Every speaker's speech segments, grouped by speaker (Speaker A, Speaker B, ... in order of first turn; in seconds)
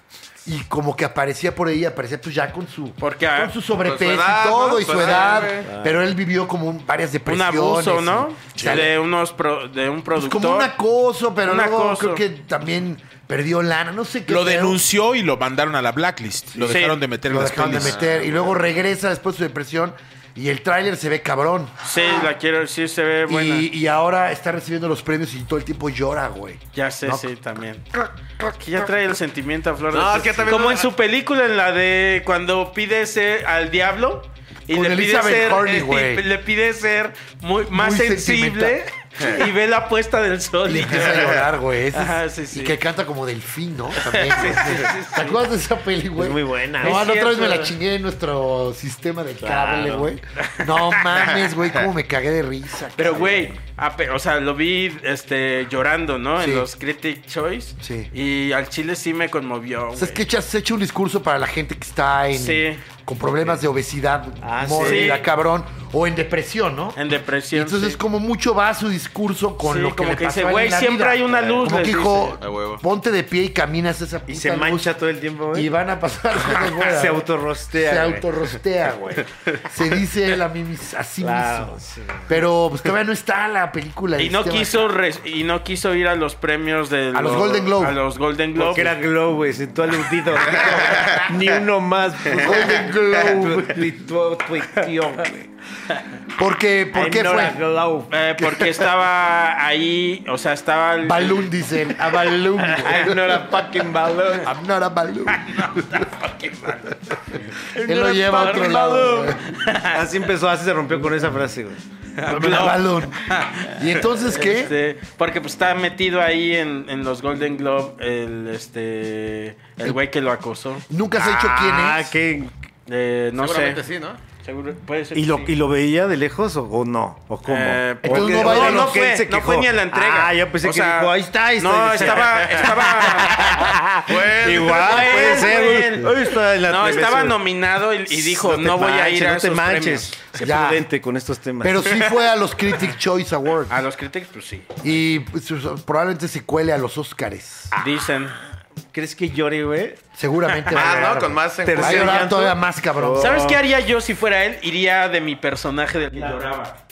Speaker A: 0.5-8.9, 10.2-14.8, 16.5-21.8, 23.3-27.3, 34.7-36.3, 37.7-38.8, 40.6-53.5, 56.4-56.7, 57.8-58.1, 60.0-67.0, 67.5-75.0, 75.5-84.9, 87.1-88.0, 92.3-93.9, 96.3-97.6, 98.4-98.9, 101.0-103.8, 104.4-109.6, 112.2-114.7, 120.9-122.2, 128.0-129.0, 140.4-140.9, 141.6-143.8, 144.8-147.8, 150.2-153.6
Speaker B: 3.0-3.5, 7.3-10.7, 11.4-12.2, 16.6-17.0, 21.8-23.7, 26.7-27.9, 28.4-42.8, 44.0-45.1, 46.8-47.8, 50.4-51.3, 53.0-60.2, 62.3-62.8, 64.8-65.2, 67.0-68.0, 69.6-72.4, 84.2-89.0, 98.1-101.5, 105.4-106.9, 107.7-110.0, 112.2-120.8, 122.9-123.8, 124.4-125.5, 127.5-133.7, 134.7-136.1, 136.7-140.2, 143.7-144.7, 147.8-148.4, 153.2-156.8
Speaker C: 3.8-5.7, 17.7-18.6, 29.9-30.9, 44.4-44.9, 51.5-51.8, 72.4-72.8, 90.4-91.6, 92.2-92.6, 123.3-124.2, 132.0-132.8, 134.1-135.4, 150.7-152.3
Speaker D: 5.6-6.1, 44.4-45.4, 46.1-47.1, 49.4-50.1, 53.1-53.5, 64.4-65.2, 74.3-75.7, 76.4-78.3, 81.2-82.3, 88.6-95.5, 96.9-98.1, 102.5-104.5, 109.9-112.8, 121.2-122.5, 125.1-137.4, 138.1-142.1, 147.7-150.0, 151.6-153.6
Speaker E: 8.6-8.9, 14.3-18.0